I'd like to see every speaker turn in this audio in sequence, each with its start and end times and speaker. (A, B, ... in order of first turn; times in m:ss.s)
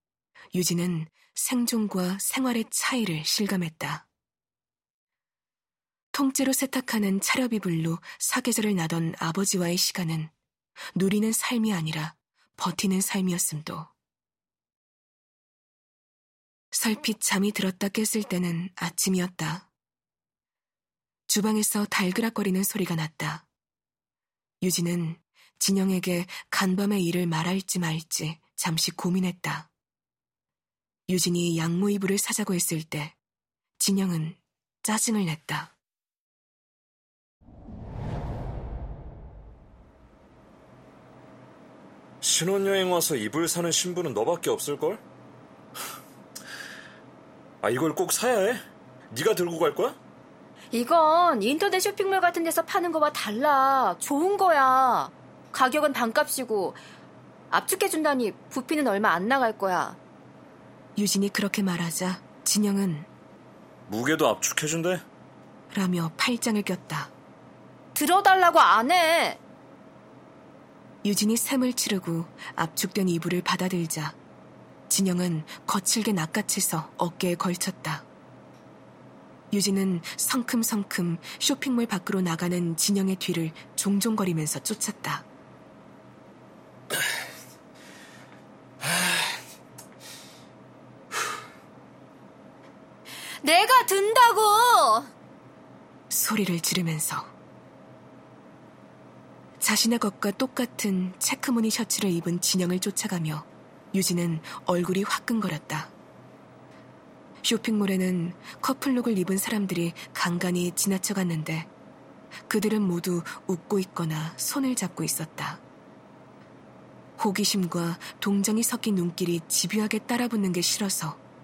0:00.5-0:04.1 A
0:06.1-0:10.3 A
0:10.9-0:13.9 A
0:16.7-0:19.7 A
0:21.3-0:23.5 A
0:24.6-0:29.7 A
0:31.1-0:33.2 A
0:33.8-0:35.7 A
0:42.2-0:45.0 B
0:47.6-0:50.0 B
0:50.7-0:56.8 C
0:57.5-1:00.0 C
1:01.0-1:03.1 A
1:03.9-1:05.0 B
1:05.7-1:07.1 A
1:07.9-1:09.4 C
1:11.0-1:14.2 A
1:14.9-1:18.0 A
1:19.5-1:25.2 A
1:33.4-1:35.1 C
1:36.1-1:37.3 A
1:39.6-1:45.9 A
1:47.4-1:51.7 A
1:52.5-1:55.6 A
1:57.2-2:01.2 A